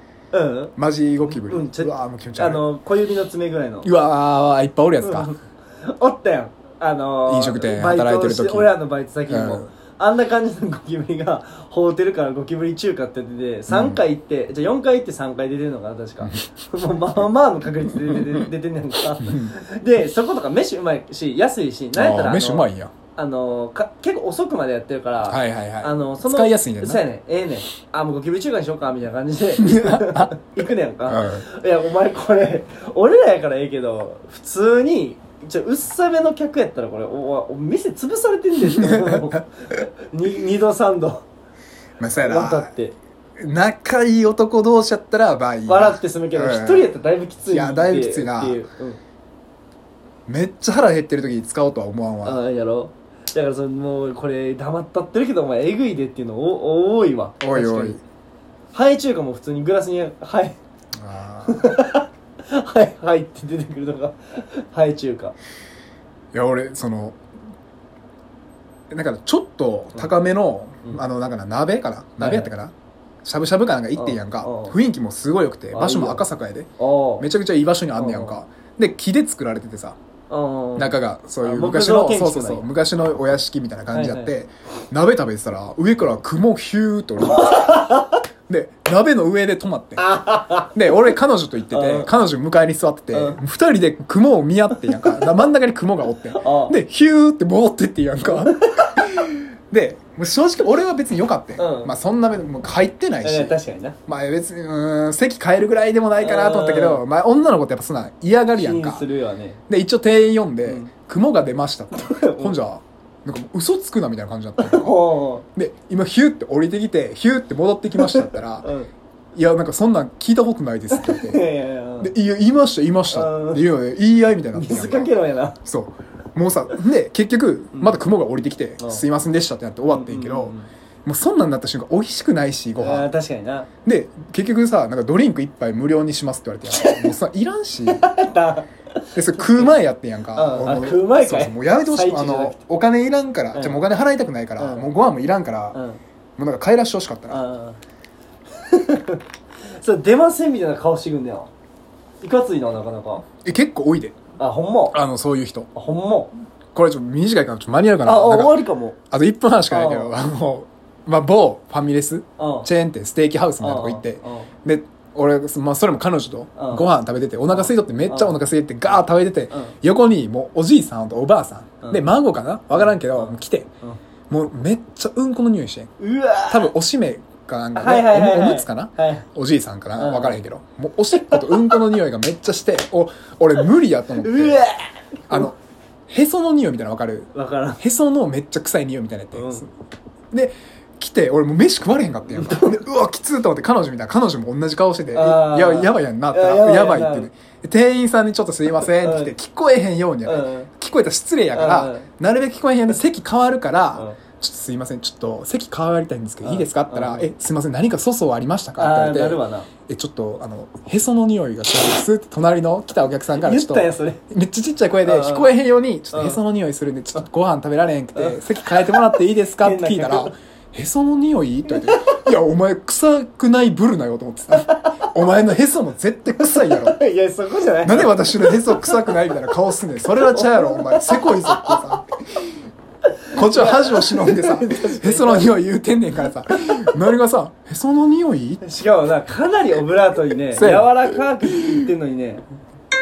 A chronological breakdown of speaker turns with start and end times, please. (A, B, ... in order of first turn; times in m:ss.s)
0:00.3-0:00.7 A
0:00.8-0:02.6 B
0:01.2-0:03.9 A
0:03.8-0:05.3 B
0:05.0-0:41.2 A
0:07.3-0:09.7 B
0:13.7-0:14.0 B
0:18.1-0:18.5 B
0:19.1-0:19.6 B
0:21.9-0:22.9 B
0:25.2-0:27.0 B
0:29.6-0:30.4 B
0:31.0-0:31.4 B
0:38.6-0:39.4 B
0:42.0-0:42.7 B
0:42.1-0:43.0 A
0:43.4-0:46.9 B
0:45.7-0:49.0 A
0:47.4-0:48.6 B
0:50.3-0:52.4 B
0:52.2-0:58.0 A
0:57.4-0:58.0 B
0:58.7-1:00.6 A
1:01.0-1:01.7 B
1:01.4-1:05.4 A
1:06.3-1:07.2 B
1:08.9-1:12.7 B
1:12.2-1:12.5 A
1:13.2-1:16.7 B
1:13.9-1:14.8 A
1:15.7-1:16.2 A
1:16.8-1:17.3 A
1:17.2-1:20.0 B
1:18.0-1:18.4 A
1:20.3-1:22.7 A
1:20.8-1:27.9 B
1:23.9-1:24.3 A
1:27.2-1:28.2 A
1:28.5-1:49.0 B
1:30.0-1:31.1 A
1:31.7-1:32.1 A
1:33.1-1:33.4 A
1:34.8-1:35.2 A
1:36.3-1:36.8 A
1:38.2-1:39.2 A
1:41.6-1:41.9 A
1:43.2-1:44.0 A
1:46.2-1:47.0 A
1:48.5-1:49.6 A
1:49.7-1:54.9 B
1:50.6-1:50.9 A
1:51.9-1:52.6 A
1:54.6-1:55.4 A
1:55.5-1:58.7 B
1:58.0-1:58.9 A
1:59.3-2:01.4 B
2:00.9-2:02.1 A
2:02.0-2:05.1 B
2:03.1-2:03.6 A
2:04.5-2:05.6 A
2:05.6-2:13.1 B
2:07.7-2:08.0 A
2:08.8-2:09.0 A
2:09.9-2:10.7 A
2:12.8-2:13.7 A
2:13.8-2:18.1 B
2:16.7-2:17.1 A
2:17.9-2:19.8 A
2:19.1-2:25.8 B
2:20.3-2:22.6 A
2:23.5-2:23.8 A
2:24.6-2:24.9 A
2:25.7-2:26.0 A
2:26.4-2:27.4 B
2:27.3-2:27.8 A
2:28.6-2:31.5 A
2:32.2-2:33.2 A
2:33.4-2:34.2 B
2:34.4-2:35.0 A
2:34.9-2:35.7 B
2:35.7-2:36.3 A
2:36.7-2:53.7 B
2:38.0-2:39.0 A
2:39.7-2:40.1 A
2:42.4-2:42.7 A
2:43.6-2:44.5 A
2:46.6-2:46.8 A
2:47.5-2:48.4 A
2:52.7-2:54.0 A
2:54.3-2:55.9 B
2:56.0-2:56.7 A
2:56.5-3:04.6 B
2:57.7-2:59.2 A
3:00.0-3:00.4 A
3:01.1-3:01.9 A
3:04.2-3:05.5 A
3:05.3-3:05.6 B
3:06.1-3:09.7 B
3:07.3-3:07.8 A
3:09.3-3:09.6 A
3:10.3-3:47.0 B
3:12.3-3:12.8 A
3:15.1-3:17.3 A
3:18.9-3:19.3 A
3:20.2-3:20.7 A
3:21.5-3:22.1 A
3:26.4-3:27.3 A
3:28.8-3:29.7 A
3:33.3-3:34.2 A
3:35.0-3:35.5 A
3:36.1-3:36.4 A
3:38.1-3:39.1 A
3:39.6-3:40.3 A
3:41.7-3:42.2 A
3:44.7-3:45.1 A
3:46.4-3:49.4 A
3:47.8-3:52.1 B
3:50.1-3:52.0 A
3:53.3-3:55.6 A
3:53.3-3:58.6 B
3:58.6-4:02.4 A
4:00.5-4:01.8 B